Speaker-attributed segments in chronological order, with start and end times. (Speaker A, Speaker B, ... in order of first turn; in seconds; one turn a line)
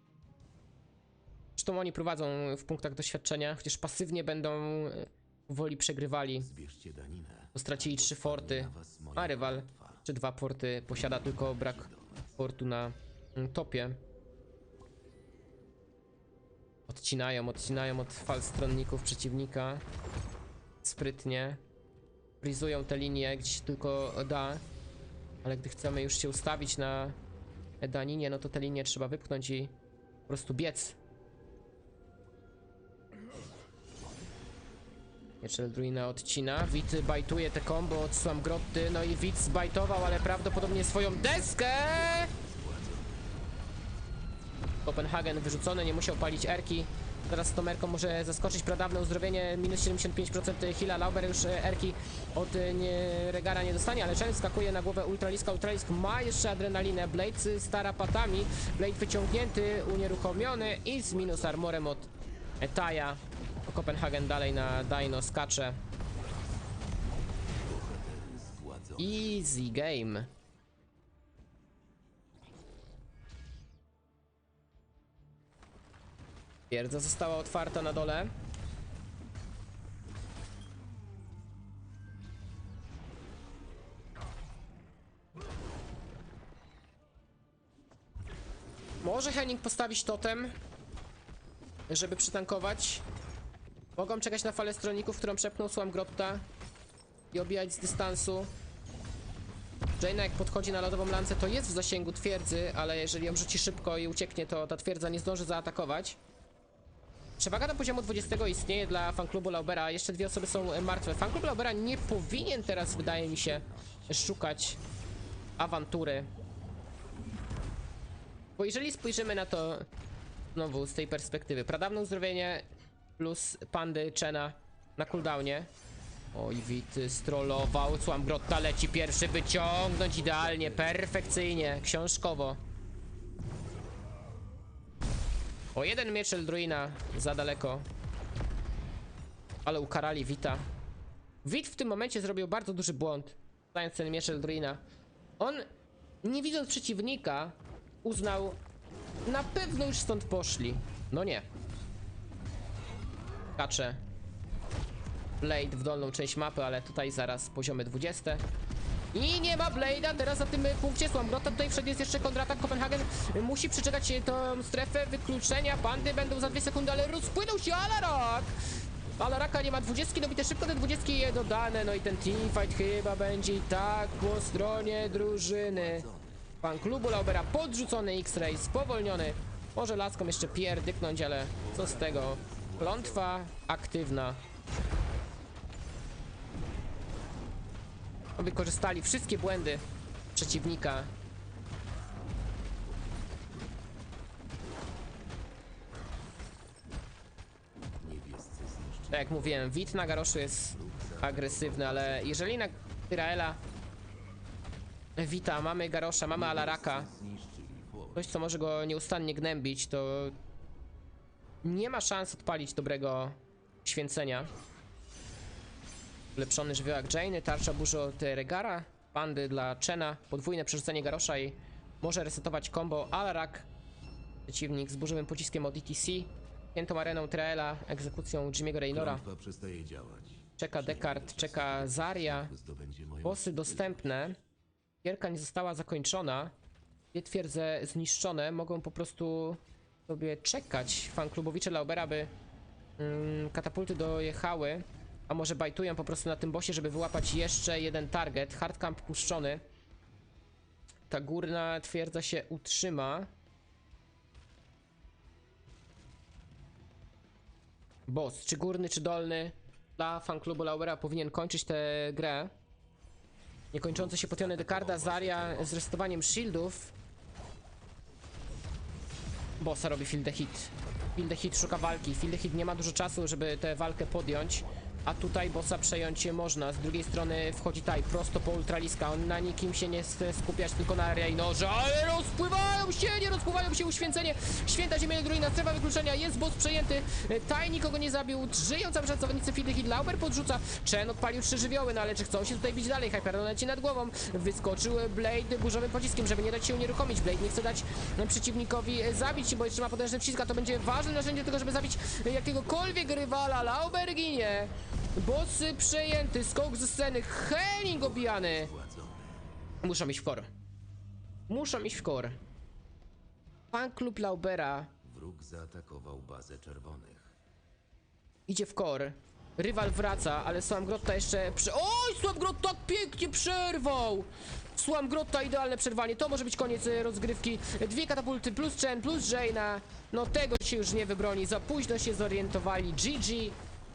Speaker A: 1.6-6.5
Speaker B: 6.4-10.0
Speaker A: 7.5-14.0
Speaker B: 11.3-12.4
Speaker A: 16.9-19.8
Speaker A: 20.8-21.6
Speaker A: 22.4-24.6
Speaker A: 25.4-27.2
Speaker A: 27.8-29.7
Speaker A: 30.3-31.0
Speaker A: 35.4-42.3
Speaker B: 42.1-43.4
Speaker A: 44.9-65.8
Speaker B: 60.1-61.8
Speaker B: 67.6-69.4
Speaker A: 69.0-70.3
Speaker A: 76.7-78.3
Speaker A: 89.0-90.5
Speaker A: 91.9-93.0
Speaker A: 94.0-96.5
Speaker A: 97.3-98.5
Speaker A: 100.0-106.2
Speaker A: 107.4-114.8
Speaker B: 112.1-114.5
Speaker A: 115.6-116.3
Speaker A: 118.6-119.9
Speaker A: 120.5-122.7
Speaker A: 123.2-125.7
Speaker A: 126.3-132.6
Speaker B: 130.1-131.9
Speaker A: 135.7-137.9
Speaker A: 139.7-140.7
Speaker A: 141.4-144.8
Speaker A: 145.4-145.7
Speaker A: 146.2-148.6
Speaker A: 149.3-151.5
Speaker A: 153.6-154.0
Speaker A: 155.4-158.4
Speaker A: 159.1-168.6
Speaker B: 166.2-167.4
Speaker A: 169.2-176.1
Speaker B: 174.5-176.6
Speaker A: 176.6-184.4
Speaker B: 181.6-183.3
Speaker A: 188.4-189.8
Speaker A: 190.3-191.1
Speaker B: 192.8-193.7
Speaker B: 198.0-199.8
Speaker A: 199.1-203.6
Speaker B: 200.7-202.7
Speaker A: 205.2-207.1
Speaker B: 206.2-208.4
Speaker A: 208.2-210.4
Speaker A: 211.6-214.5
Speaker A: 216.3-223.7
Speaker A: 224.5-229.2
Speaker B: 228.9-234.2
Speaker A: 230.6-232.5
Speaker A: 233.2-234.4
Speaker A: 235.0-236.5
Speaker A: 237.1-242.3
Speaker A: 243.0-249.6
Speaker A: 251.1-253.3
Speaker A: 258.1-262.5
Speaker A: 263.7-266.9
Speaker B: 263.8-265.8
Speaker A: 269.6-308.7
Speaker B: 307.9-309.4
Speaker A: 309.8-310.5
Speaker A: 311.5-312.4
Speaker A: 313.7-314.9
Speaker B: 315.0-317.4
Speaker A: 318.5-333.6
Speaker B: 320.3-321.0